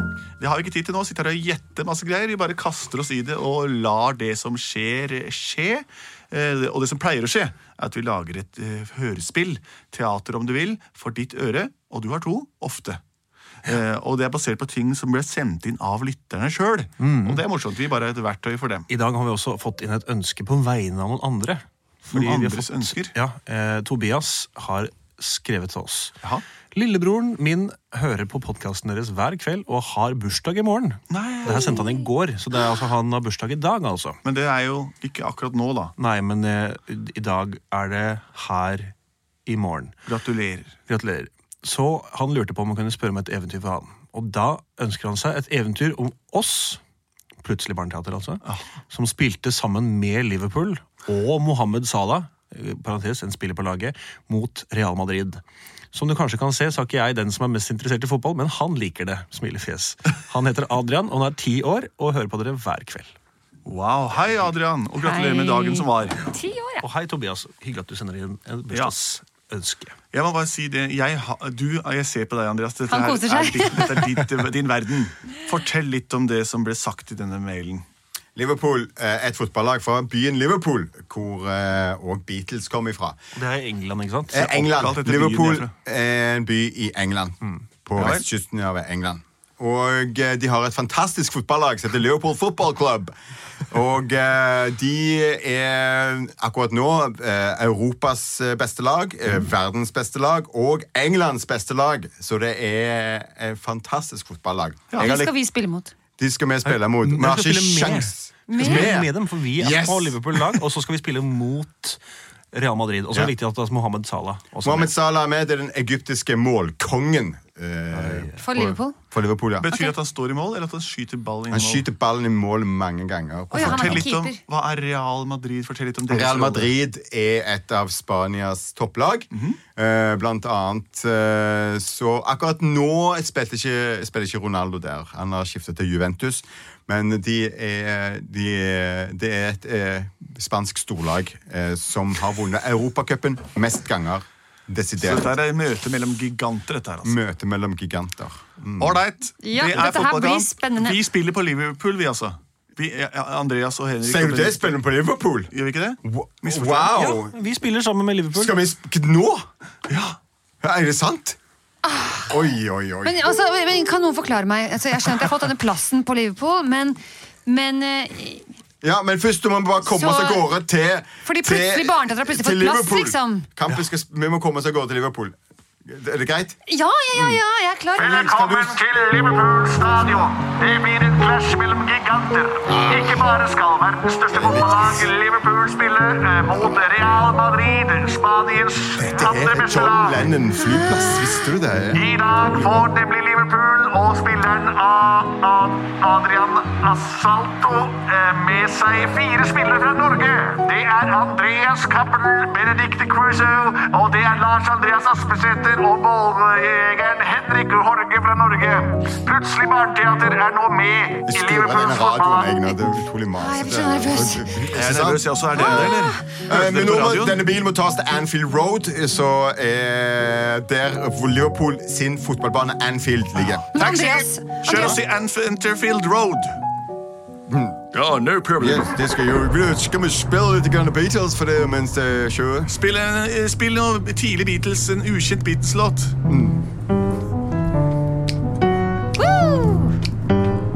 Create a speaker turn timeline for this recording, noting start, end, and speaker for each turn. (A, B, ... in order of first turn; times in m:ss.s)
0:00.4-0:13.0 A
0:13.6-0:18.9 A
0:17.0-0:17.4 B
0:18.9-0:26.2 B
0:22.1-0:23.2 A
0:26.7-0:34.2 B
0:31.1-0:31.8 A
0:34.2-0:35.9 A
0:36.0-0:38.9 B
0:39.4-0:39.9 B
0:40.0-0:40.8 A
0:40.9-0:46.8 B
0:47.4-0:55.4 B
0:48.4-0:48.7 A
0:55.9-1:03.1 B
1:03.6-1:06.3 A
1:05.0-1:06.8 C
1:06.8-1:09.9 B
1:08.7-1:08.9 A
1:10.1-1:17.8 A
1:12.9-1:14.1 C
1:18.3-1:23.2 D
1:23.4-1:24.5 B
1:24.3-1:33.1 D
1:24.3-1:25.7 A
1:28.0-1:28.2 A
1:33.7-1:45.3 D
1:45.0-1:45.9 C
1:46.2-1:50.6 D
1:46.6-1:52.0 B
1:48.5-1:48.9 C
1:52.5-1:54.9 B
1:54.6-1:59.7 D
1:57.9-1:58.4 B
1:58.4-1:59.0 C
1:59.6-2:01.9 A
2:01.5-2:04.0 D
2:03.5-2:06.7 A
2:03.5-2:04.4 C
2:06.1-2:25.3 D
2:09.3-2:09.6 A
2:25.0-2:27.2 A
2:27.0-2:29.0 D
2:28.8-2:34.8 A
2:29.4-2:31.0 C
2:34.0-2:35.5 D
2:35.5-2:37.0 A
2:36.0-2:37.4 D
2:36.8-2:38.5 B
2:38.3-2:39.4 D
2:39.9-2:40.2 A
2:40.6-2:41.4 D
2:41.8-2:42.4 C
2:42.3-2:43.2 D
2:43.0-2:48.5 C
2:48.8-2:56.6 D
2:49.8-2:50.5 C
2:51.2-2:53.5 C
2:56.7-2:58.2 C
2:57.1-2:57.4 D
2:58.0-2:58.8 D
2:58.0-3:10.3 E
3:02.7-3:03.3 D
3:04.3-3:05.0 D
3:09.0-3:12.0 D
3:10.7-3:11.3 C
3:11.9-3:32.6 E
3:31.3-3:43.7 D
3:33.4-3:34.5 C
3:34.6-3:37.4 A
3:35.6-3:36.3 C
3:43.4-3:46.6 A
3:43.7-3:45.0 C
3:47.5-3:47.8 D
3:47.9-3:48.9 A
3:48.6-3:52.7 D
3:52.7-3:56.1 A
3:56.2-3:56.6 D
3:59.1-4:00.0 C